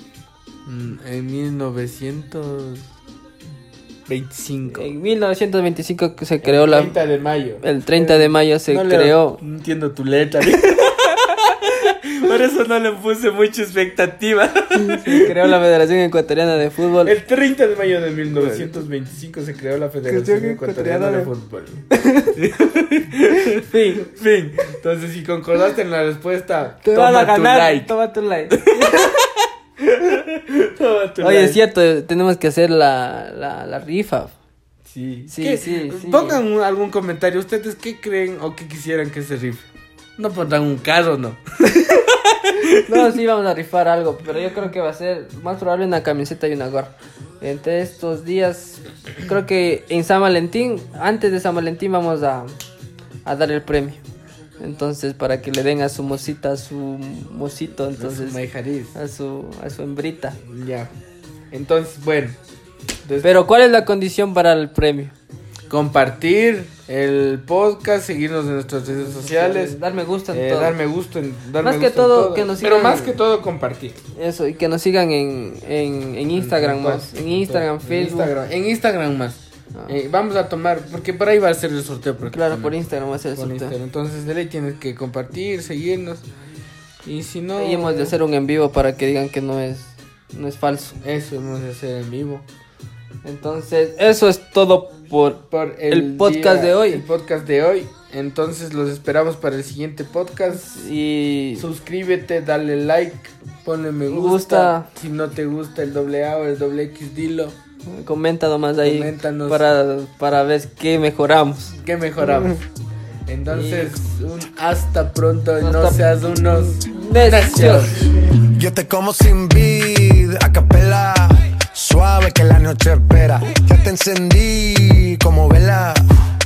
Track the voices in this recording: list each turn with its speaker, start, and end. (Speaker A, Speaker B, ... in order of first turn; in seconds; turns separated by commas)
Speaker A: 0.7-2.9, Speaker A: 4.1-4.9, Speaker B: 4.7-7.0, Speaker A: 6.4-15.5, Speaker B: 7.6-9.4, Speaker B: 14.7-17.1, Speaker A: 17.0-27.9, Speaker B: 18.3-18.8, Speaker B: 20.1-21.3, Speaker B: 21.9-22.3, Speaker B: 23.6-24.1, Speaker B: 26.8-29.2, Speaker A: 28.5-31.6, Speaker B: 31.2-34.3, Speaker A: 34.9-39.6, Speaker B: 35.3-36.4, Speaker A: 40.2-42.8, Speaker B: 42.8-52.5, Speaker B: 53.2-54.0, Speaker B: 54.6-58.4, Speaker A: 58.0-59.0, Speaker B: 59.0-60.4, Speaker A: 60.4-60.9, Speaker A: 61.5-62.4, Speaker A: 63.0-63.3, Speaker B: 63.2-65.1, Speaker A: 65.7-69.8, Speaker B: 69.0-70.8, Speaker A: 70.3-74.0, Speaker B: 71.6-73.2, Speaker B: 74.2-78.3, Speaker A: 76.3-82.8, Speaker B: 82.3-83.8, Speaker A: 83.3-86.2, Speaker A: 87.0-88.1, Speaker B: 87.5-91.0, Speaker A: 91.0-92.5, Speaker B: 93.2-97.0, Speaker A: 95.5-100.9, Speaker B: 100.6-101.7, Speaker A: 101.6-107.6, Speaker B: 104.1-104.9, Speaker B: 107.9-112.5, Speaker A: 108.8-109.7, Speaker A: 111.7-112.6, Speaker A: 113.3-118.1, Speaker B: 113.5-114.1, Speaker B: 115.6-118.0, Speaker C: 118.4-126.1